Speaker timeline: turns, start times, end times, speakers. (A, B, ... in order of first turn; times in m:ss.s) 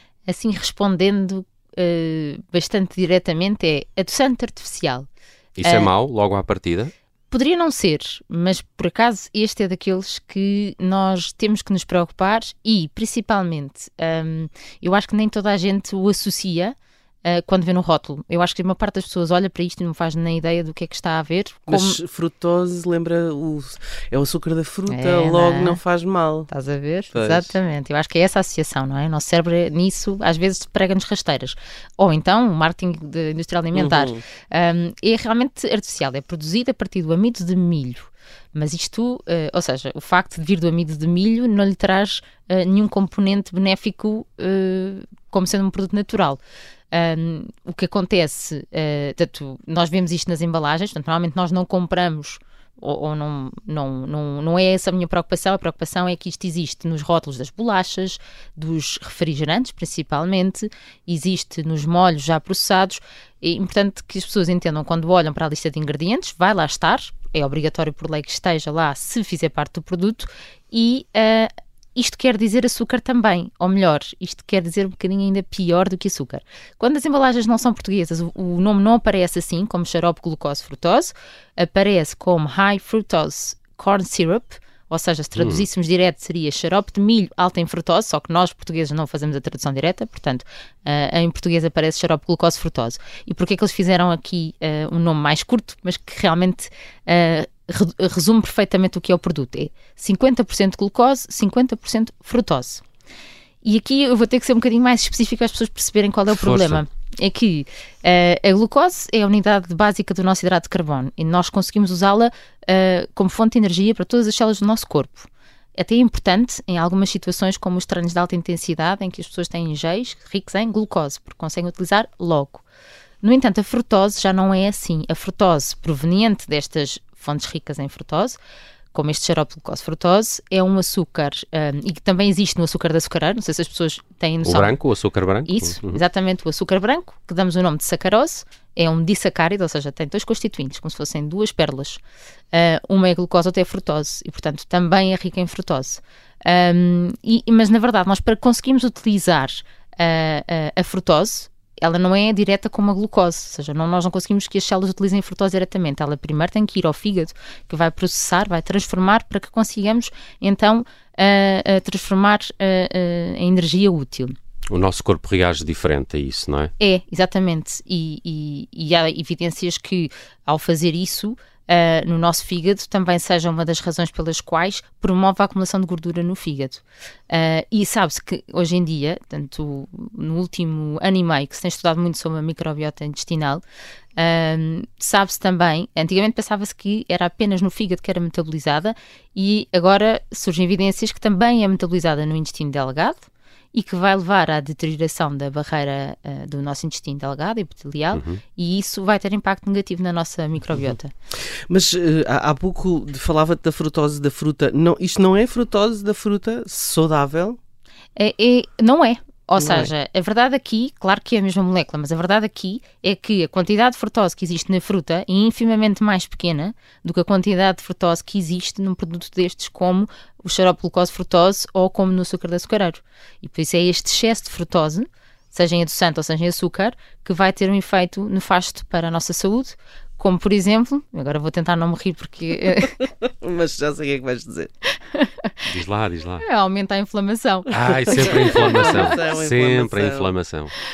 0:00.2-0:05.1 A
0:05.6-0:06.9 B
0:05.6-0:05.9 A
0:07.3-0:22.0 A
0:21.7-0:26.5 C
0:24.9-0:25.8 A
0:26.5-0:46.4 A
0:27.1-0:27.6 C
0:33.7-0:34.2 C
0:46.9-1:42.8 A
1:25.4-1:25.6 B
1:43.6-2:02.6 A
1:46.3-1:46.8 B
2:03.2-2:08.4 A
2:08.9-2:14.8 A
2:14.4-2:16.0 B
2:15.4-2:22.0 A
2:22.5-2:44.3 A
2:44.7-2:46.7 B
2:46.8-3:03.6 A
3:04.2-3:21.1 A
3:18.1-3:18.4 B
3:21.7-3:27.6 C
3:28.2-3:53.0 A
3:29.6-3:29.9 C
3:53.2-3:54.7 C
3:54.9-3:55.5 A
3:55.7-3:56.4 B
3:56.4-3:59.2 A
3:57.7-4:00.7 B
3:58.2-4:00.3 C